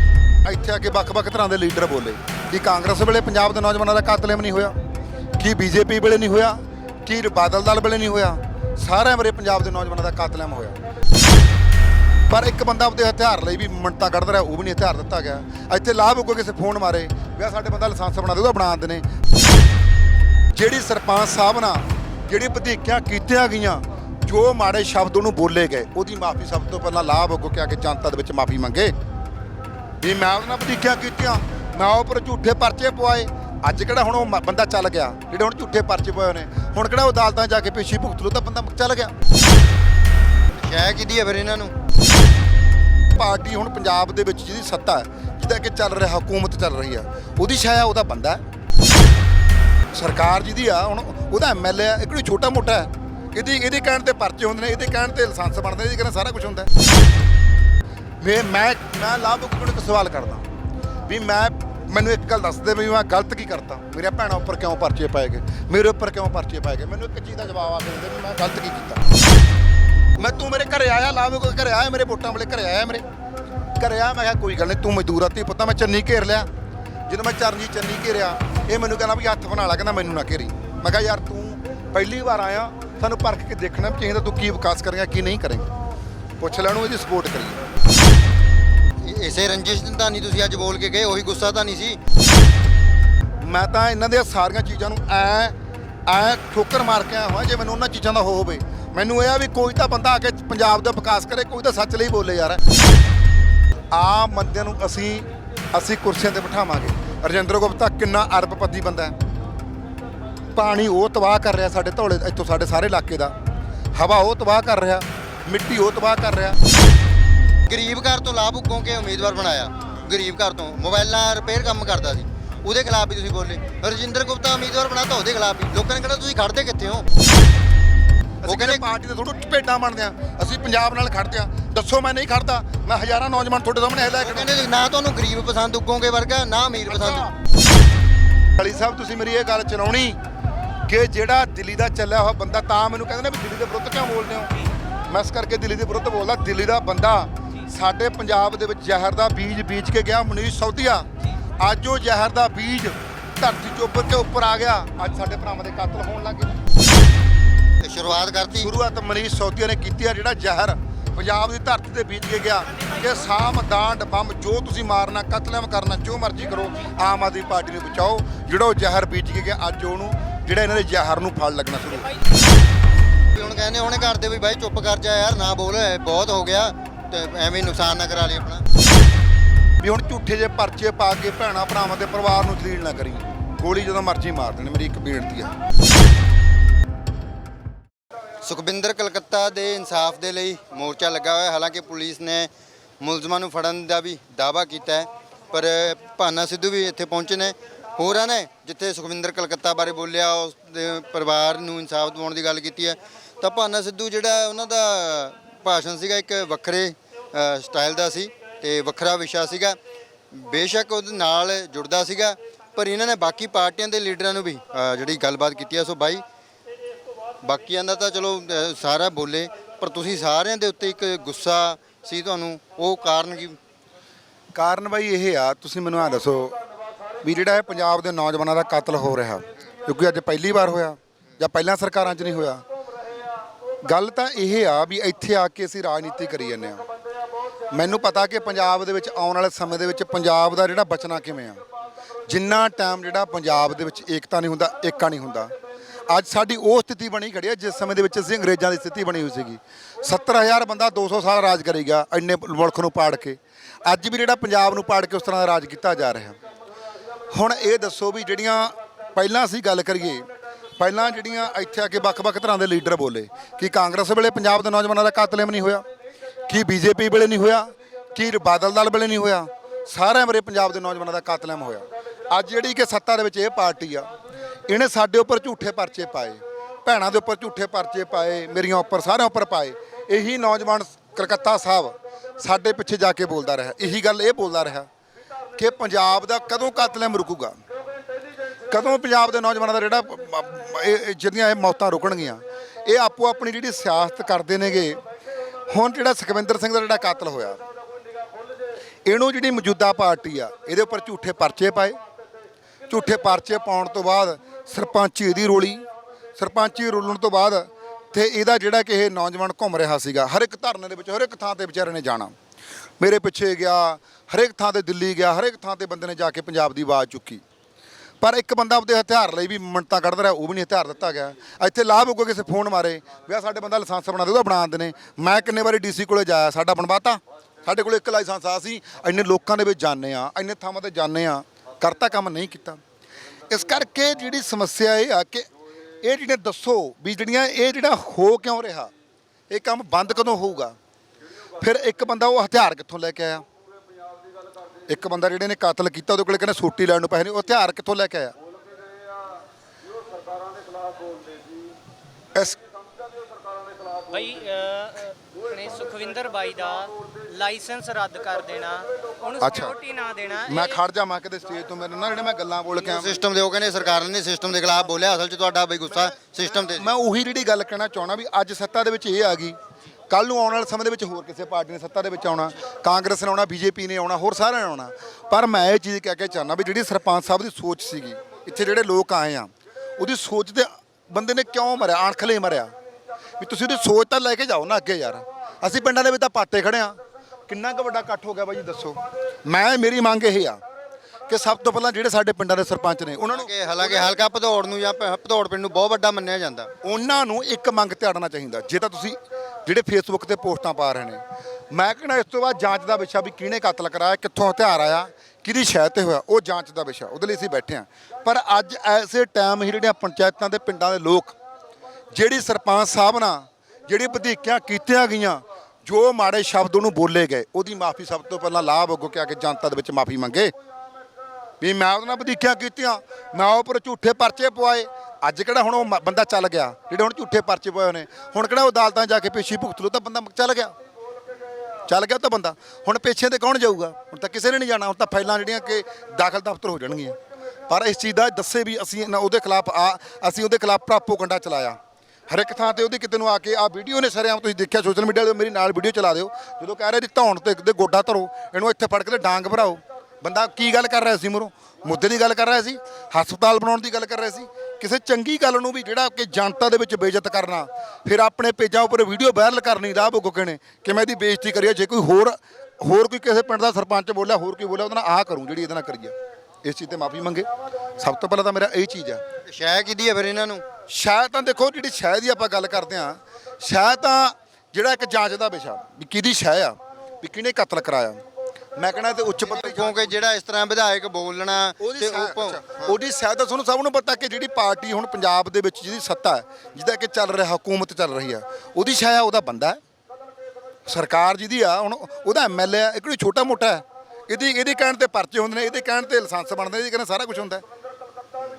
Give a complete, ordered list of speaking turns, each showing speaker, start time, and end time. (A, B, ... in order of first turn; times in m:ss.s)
0:00.4-0:04.7 A
0:05.4-0:10.8 A
0:12.3-0:19.0 A
0:20.5-0:28.9 A
0:30.0-0:39.1 A
0:40.5-0:41.7 B
0:43.1-0:48.4 A
0:49.9-0:56.7 A
0:58.2-1:00.5 A
1:01.1-1:09.0 A
1:10.2-1:13.0 A
1:13.8-1:16.5 A
1:17.1-1:25.7 A
1:26.4-1:27.6 A
1:29.0-1:32.0 B
1:33.4-1:35.6 A
1:36.1-1:42.6 A
1:43.9-1:49.1 A
1:50.5-1:53.3 A
1:53.9-1:56.6 A
1:57.6-2:07.0 B
2:08.4-2:14.5 A
2:08.4-2:08.8 B
2:14.2-2:17.3 B
2:16.9-2:17.3 A
2:18.6-2:20.2 A
2:20.9-2:24.5 A
2:25.1-2:31.1 A
2:31.6-2:36.5 A
2:37.8-2:38.7 B
2:38.5-2:52.1 A
2:42.7-2:43.3 C
2:52.0-2:52.4 C
2:53.3-2:58.6 B
2:59.8-3:05.5 A
3:08.4-3:12.5 B
3:13.0-3:29.8 B
3:30.3-3:36.2 B
3:37.4-3:43.6 B
3:44.5-3:46.6 A
3:47.2-3:52.6 A
3:53.8-3:56.8 A
3:57.7-4:01.6 A
4:02.3-4:05.5 A
4:06.1-4:16.4 A
4:17.3-4:20.2 A
4:20.8-4:25.8 A
4:26.5-4:34.1 A
4:34.7-4:44.9 A
4:45.6-4:47.6 A
4:48.7-4:55.0 A
4:55.7-4:57.6 A
4:59.0-5:02.0 A
5:02.9-5:05.8 A
5:06.4-5:12.3 A
5:13.0-5:17.4 A
5:18.2-5:32.8 A
5:33.5-5:35.5 A
5:36.0-5:38.9 A
5:39.5-5:40.7 A
5:41.6-5:43.4 A
5:44.9-5:48.3 A
5:54.1-6:00.8 C
5:59.4-5:59.8 A
6:00.4-6:03.2 A
6:02.8-6:06.9 B
6:05.9-6:09.6 A
6:10.1-6:22.7 A
6:23.4-6:27.0 A
6:27.5-6:30.6 A
6:31.3-6:34.1 A
6:33.3-6:36.7 B
6:36.8-6:51.4 A
6:52.1-7:00.5 A
7:01.6-7:10.7 A
7:11.9-7:17.2 A
7:17.7-7:21.8 A
7:22.3-7:46.1 A
7:46.6-7:47.5 A
7:48.0-7:49.2 A
7:49.4-7:50.6 B
7:50.9-7:58.2 A
7:58.8-8:00.2 A
7:59.4-8:03.0 B
8:01.8-8:09.8 A
8:10.8-8:17.6 A